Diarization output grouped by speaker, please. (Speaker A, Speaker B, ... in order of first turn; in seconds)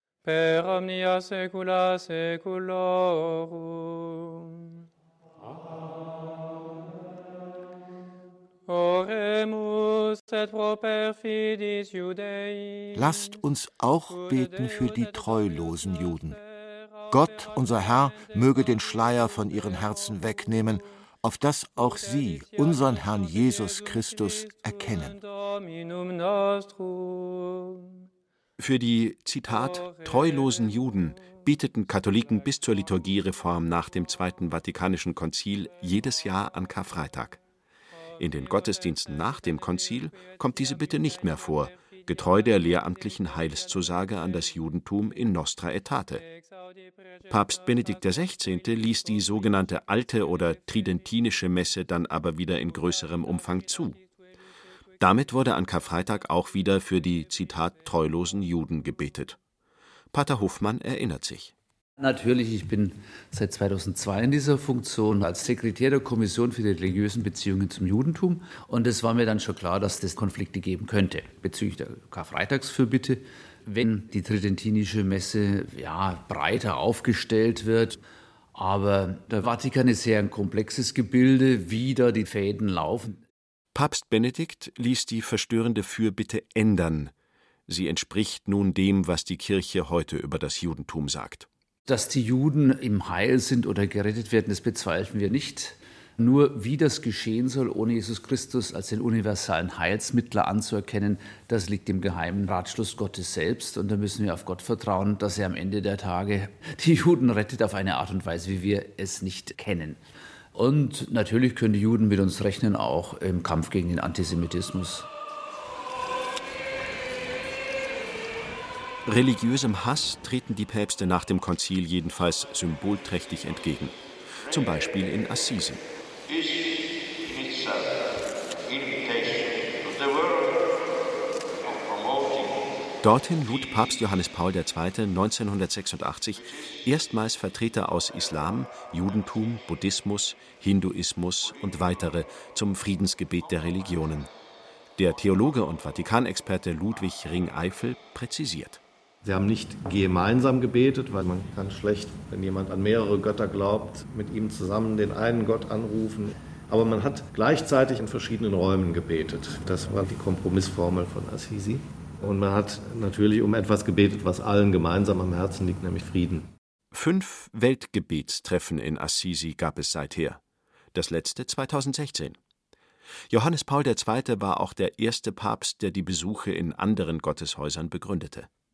Speaker A: 0.2-4.8, 8.7-13.4, 14.1-20.8, 21.8-28.0, 29.5-31.4, 38.2-42.8, 46.2-49.4, 53.0-54.0
Speaker B: 12.9-16.4, 17.1-25.2
Speaker C: 28.6-37.4, 38.2-46.2, 47.3-54.0, 55.0-59.4, 60.1-61.5, 83.7-87.1, 87.7-91.5, 119.0-125.8, 127.3-127.8, 128.7-130.5, 131.7-132.5, 133.0-144.3, 145.0-148.8, 166.9-170.4, 170.9-172.4, 173.3-178.5
Speaker D: 62.0-78.0, 78.5-83.2, 91.9-110.0, 110.5-115.1
Speaker E: 149.2-166.5